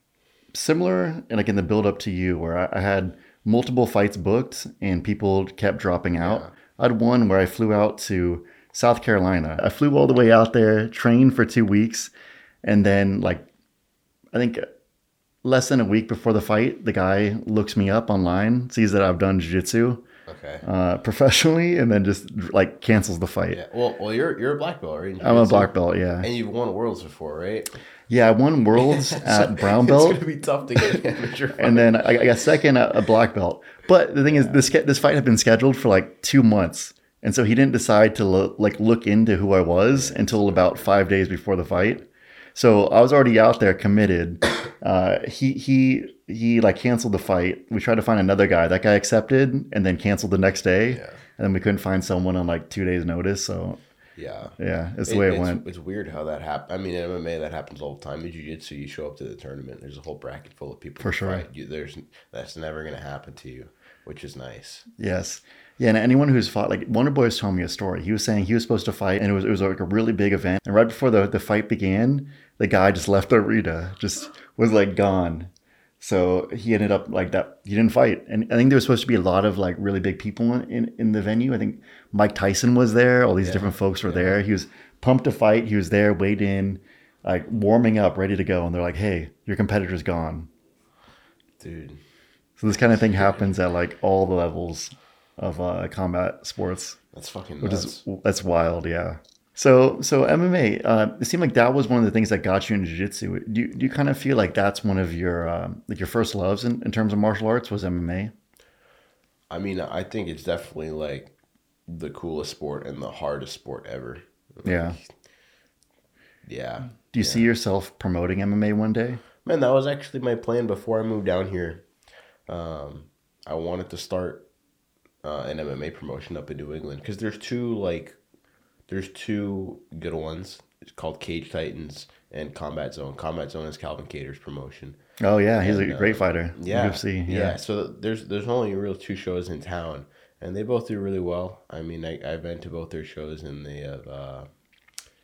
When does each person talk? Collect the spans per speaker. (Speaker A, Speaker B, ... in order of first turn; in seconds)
Speaker A: 0.5-12.1, 12.6-13.5, 14.3-14.7, 15.4-20.1, 20.6-23.6, 25.2-26.3, 28.1-30.2, 31.6-53.8, 54.6-55.6, 61.0-61.5, 65.0-75.5, 76.0-90.5, 92.6-97.0, 97.6-108.3, 114.7-115.0, 117.1-119.2, 135.2-137.6
Speaker B: 6.2-6.5, 20.3-20.6, 23.5-27.7, 28.8-32.0, 39.9-40.2, 50.9-51.2, 54.2-54.5, 55.1-64.9, 83.4-84.4, 91.6-92.0, 92.8-93.4, 97.1-98.0, 109.5-111.3, 111.9-115.1, 116.5-117.5, 119.4-121.8, 122.5-124.5, 125.2-128.2, 128.9-135.0, 135.6-144.5